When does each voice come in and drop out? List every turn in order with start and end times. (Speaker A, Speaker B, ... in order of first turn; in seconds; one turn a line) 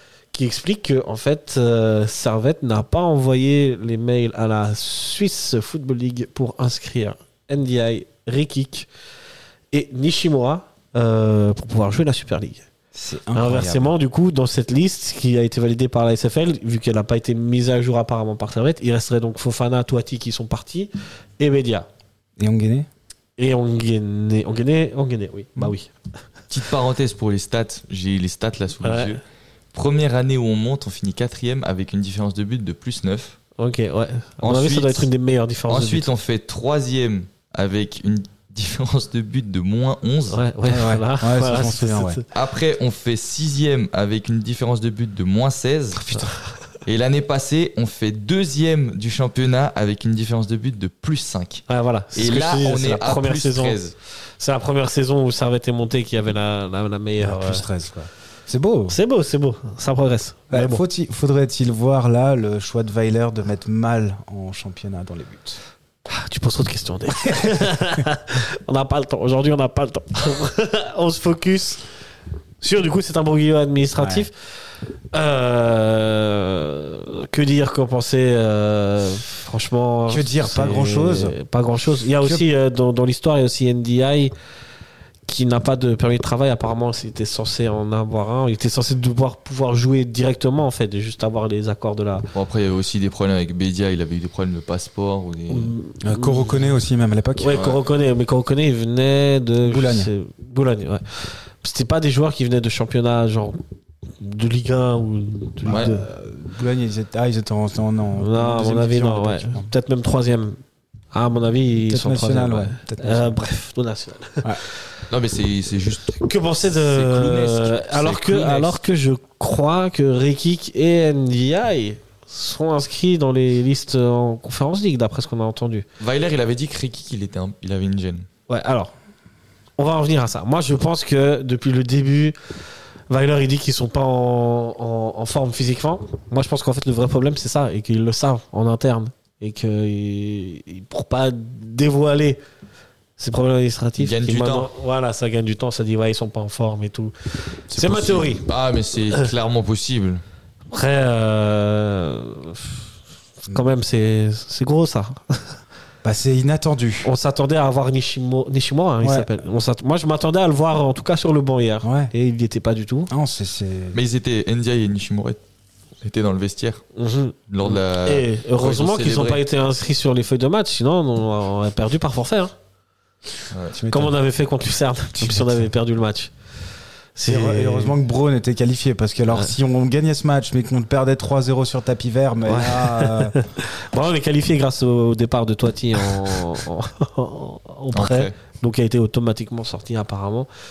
Speaker A: 0.3-8.9
Speaker A: 9.7-12.7
Speaker B: 12.9-13.9
Speaker A: 13.3-21.9
Speaker B: 22.4-22.9
Speaker A: 23.4-25.9
Speaker C: 26.5-29.2
Speaker A: 28.8-29.2
Speaker C: 29.7-33.4
Speaker A: 33.6-36.1
Speaker C: 34.4-35.1
Speaker C: 35.7-40.4
Speaker A: 40.3-42.2
Speaker B: 40.6-42.2
Speaker C: 42.3-46.3
Speaker B: 46.1-46.3
Speaker C: 46.9-54.0
Speaker A: 51.7-53.8
Speaker A: 54.4-57.6
Speaker B: 57.2-59.0
Speaker A: 58.9-60.8
Speaker B: 60.5-65.6
Speaker A: 66.1-71.8
Speaker B: 67.3-67.7
Speaker A: 72.6-74.3
Speaker B: 74.0-74.3
Speaker A: 75.1-84.3
Speaker B: 80.1-81.4
Speaker B: 82.2-82.5
Speaker A: 85.3-92.3
Speaker C: 92.3-95.8
Speaker A: 95.5-96.7
Speaker B: 96.0-97.6
Speaker A: 97.4-103.6
Speaker C: 97.5-97.8
Speaker B: 99.6-100.1
Speaker A: 104.2-106.0
Speaker B: 105.7-109.7
Speaker A: 108.2-110.6
Speaker A: 111.1-114.7
Speaker B: 111.9-113.4
Speaker C: 115.1-118.8
Speaker A: 116.2-125.9
Speaker C: 126.0-128.3
Speaker A: 128.5-128.9
Speaker A: 129.8-132.4
Speaker A: 133.1-142.4
Speaker A: 143.2-148.5
Speaker C: 144.0-144.7
Speaker C: 147.8-150.2
Speaker A: 150.7-152.8
Speaker A: 153.5-155.6
Speaker B: 156.0-157.1
Speaker A: 157.1-163.1
Speaker B: 159.0-159.3
Speaker B: 161.8-162.1
Speaker B: 163.1-164.0
Speaker C: 163.9-165.4
Speaker C: 166.0-166.8
Speaker A: 167.0-172.5
Speaker C: 167.5-169.4
Speaker C: 173.5-173.8
Speaker B: 173.7-174.2
Speaker A: 173.9-176.3
Speaker B: 175.2-175.7
Speaker A: 177.2-178.0
Speaker B: 177.3-183.4
Speaker A: 182.5-190.5
Speaker C: 187.9-188.3